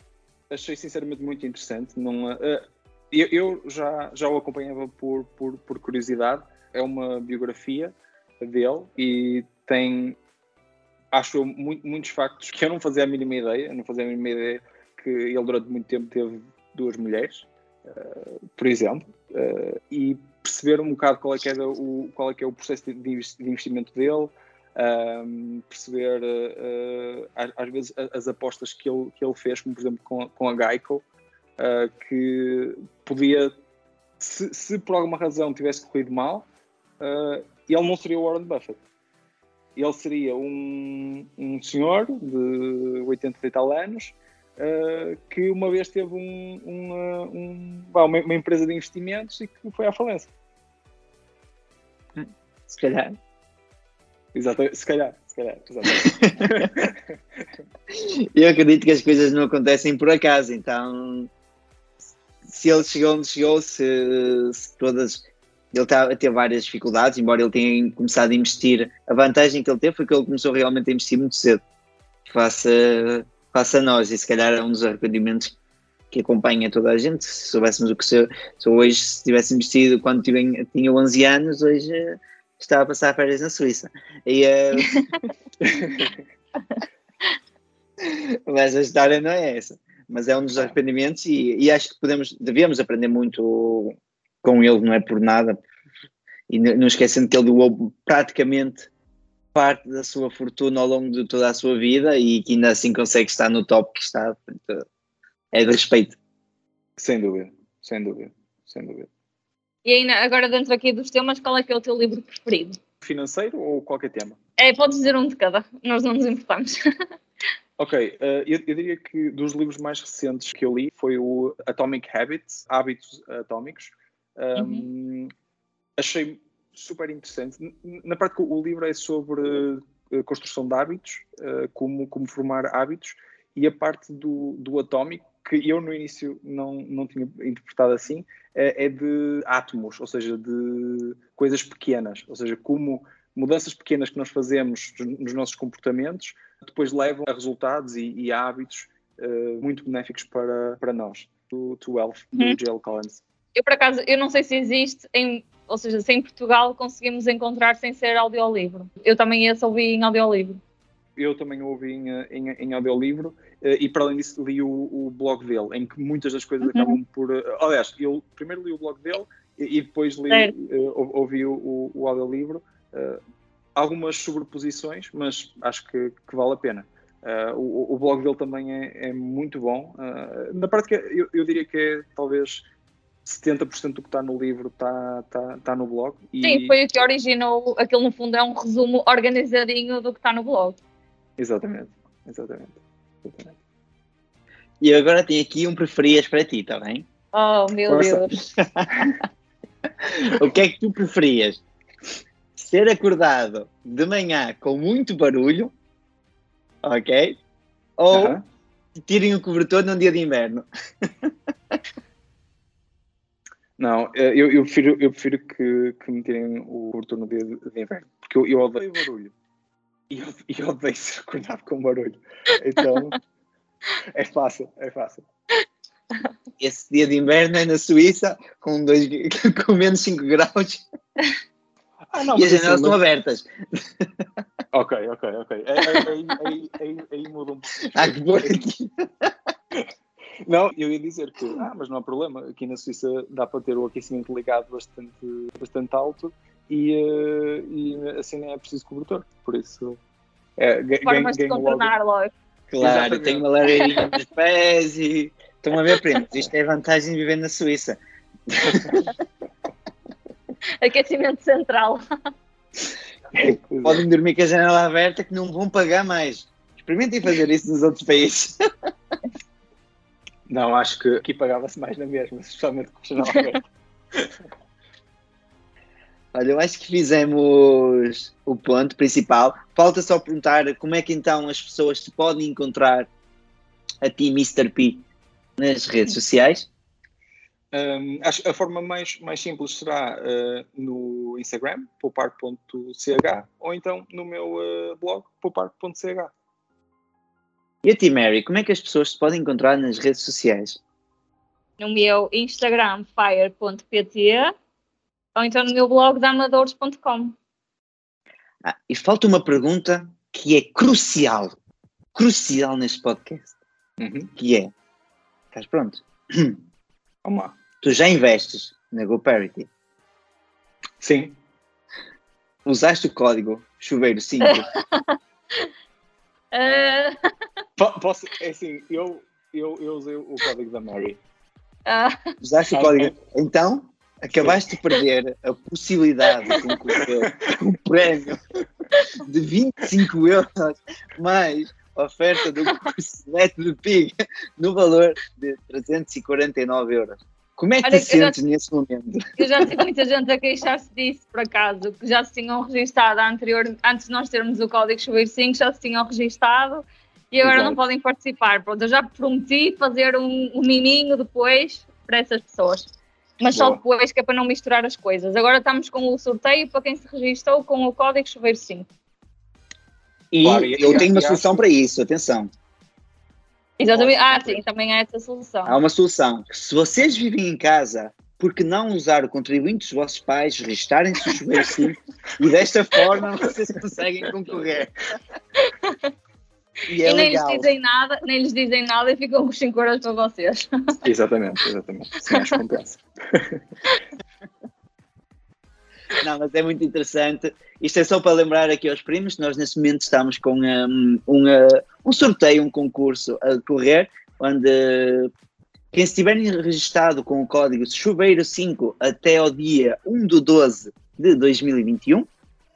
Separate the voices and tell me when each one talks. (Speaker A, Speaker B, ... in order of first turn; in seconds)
Speaker A: 0.5-10.2, 11.1-31.0, 31.6-33.5, 34.2-36.5, 37.0-38.8, 39.8-50.3, 54.3-57.4, 85.6-86.2, 107.0-109.1, 113.0-114.4, 117.8-125.3, 126.0-153.2, 161.2-173.2, 173.8-182.7, 183.2-186.8, 191.4-193.6, 208.1-208.4, 213.8-219.3, 220.1-223.2, 224.1-225.3, 232.1-233.0, 234.7-238.6, 240.4-250.0, 250.6-251.9, 252.7-253.9, 258.6-259.0, 263.4-264.1, 270.5-273.6, 287.7-296.3, 314.0-314.3, 317.2-317.6, 321.0-321.4, 327.8-331.2, 332.7-333.1, 336.9-337.6, 357.4-357.8, 363.5-363.8, 370.4-371.6, 391.0-393.6
Speaker B: 52.2-53.2, 56.0-56.7, 57.9-61.3, 62.5-71.6, 72.3-75.5, 76.1-85.1, 88.0-95.6, 96.5-98.9, 99.5-104.8, 105.5-106.2, 194.8-197.1, 197.9-199.2, 200.0-201.6, 202.6-205.7, 206.8-207.4, 208.0-208.4, 209.0-211.3, 226.6-230.8, 232.3-234.2, 237.9-239.3, 252.8-258.0, 258.5-259.1, 263.4-268.7, 276.3-283.1, 284.0-285.1, 285.6-286.7, 297.8-300.8, 308.6-311.6, 312.1-313.6, 314.4-314.7, 315.5-316.6, 317.8-319.7, 322.6-324.7, 332.4-338.4, 339.2-349.8, 370.3-372.5, 373.9-374.6, 375.6-384.9, 386.9-387.7, 396.2-405.3, 405.9-412.3
Speaker C: 109.8-112.8, 114.6-116.8, 124.6-124.9, 153.6-160.6, 166.6-167.0, 186.4-190.8, 197.3-198.3, 251.1-252.3, 260.8-262.1, 301.8-304.5, 305.4-307.4, 324.4-325.7, 326.5-327.3, 331.9-332.4, 347.8-348.4, 349.4-362.9, 363.4-368.9, 373.8-375.8, 385.6-386.1, 387.1-391.0, 392.3-392.6